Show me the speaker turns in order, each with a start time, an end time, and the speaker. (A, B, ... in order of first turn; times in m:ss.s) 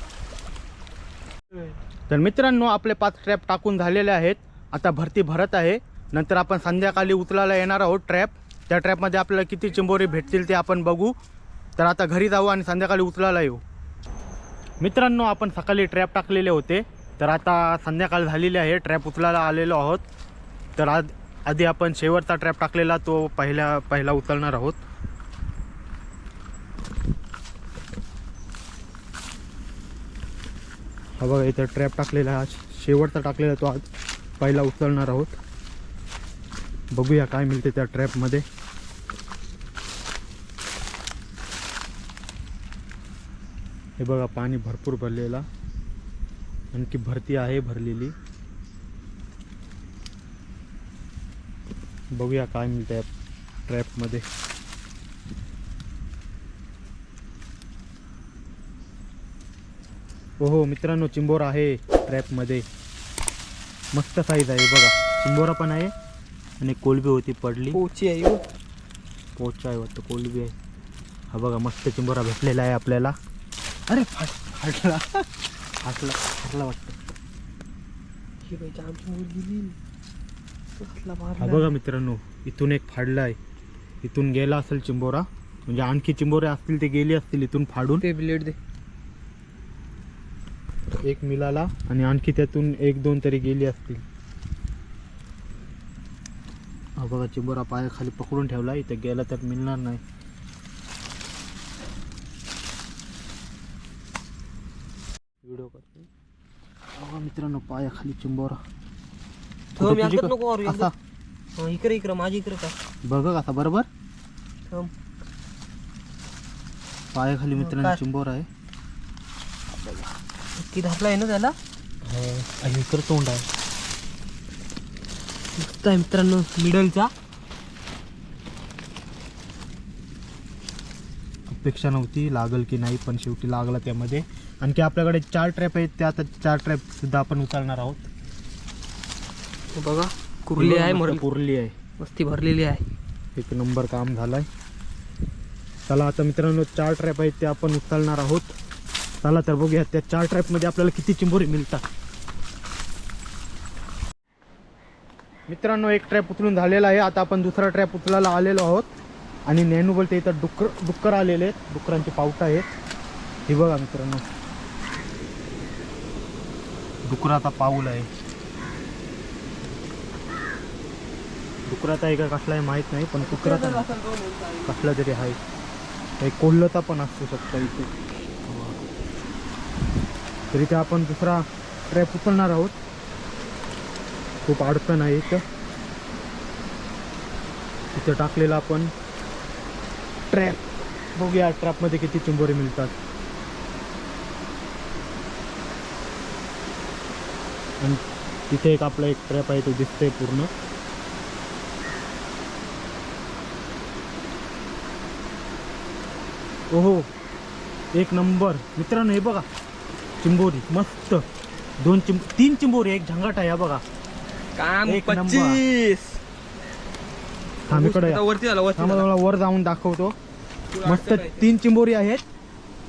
0:02.1-0:11.2 A
0:11.8-0:13.6 A
0:14.8-0:20.0 A
0:20.8-0:24.8 A
0:31.2-0:33.8 A
0:34.4-0:35.4 A
0:36.9-0:38.4 A
0:44.0-0:45.5 A
0:46.7-0:48.2 A
0:52.2-0:53.1 A
0:53.7-0:54.2 A
1:00.4-1:02.7 A
1:03.9-1:05.9 A
1:06.6-1:07.8 A
1:07.7-1:08.4 B
1:09.4-1:10.6 A
1:11.3-1:13.2 A
1:13.9-1:15.2 A
1:15.8-1:17.0 A
1:18.4-1:19.8 B
1:20.8-1:21.8 B
1:21.4-1:23.4 A
1:24.0-1:28.1 A
1:28.0-1:28.6 B
1:31.0-1:34.0 A
1:37.0-1:40.0 A
1:45.4-1:46.1 A
1:47.0-1:48.6 A
1:49.8-1:50.9 B
1:49.8-1:50.9 A
1:51.6-1:52.8 B
1:53.1-1:53.9 A
1:57.1-1:58.5 A
1:57.6-1:58.0 B
2:00.6-2:01.6 B
2:02.0-2:03.5 A
2:05.6-2:07.1 B
2:11.5-2:18.1 A
2:19.8-2:21.2 B
2:20.6-2:21.8 A
2:22.0-2:22.9 B
2:23.4-2:24.5 A
2:25.9-2:28.6 A
2:29.2-2:31.8 A
2:35.5-2:38.9 A
2:39.5-2:42.7 A
2:43.5-2:44.3 A
2:47.1-2:48.1 A
2:51.7-2:53.9 A
2:53.2-2:54.9 B
2:54.6-2:55.4 A
2:56.2-2:57.9 A
2:58.5-2:58.8 A
3:00.5-3:02.8 A
3:04.5-3:05.4 A
3:07.9-3:08.9 A
3:10.3-3:13.0 A
3:17.8-3:20.5 A
3:26.7-3:27.1 A
3:28.0-3:29.5 A
3:30.2-3:31.2 A
3:31.8-3:33.8 A
3:34.6-3:36.2 B
3:34.9-3:35.6 A
3:37.7-3:38.2 A
3:37.7-3:39.1 B
3:38.8-3:40.2 A
3:40.7-3:41.5 B
3:40.8-3:42.2 A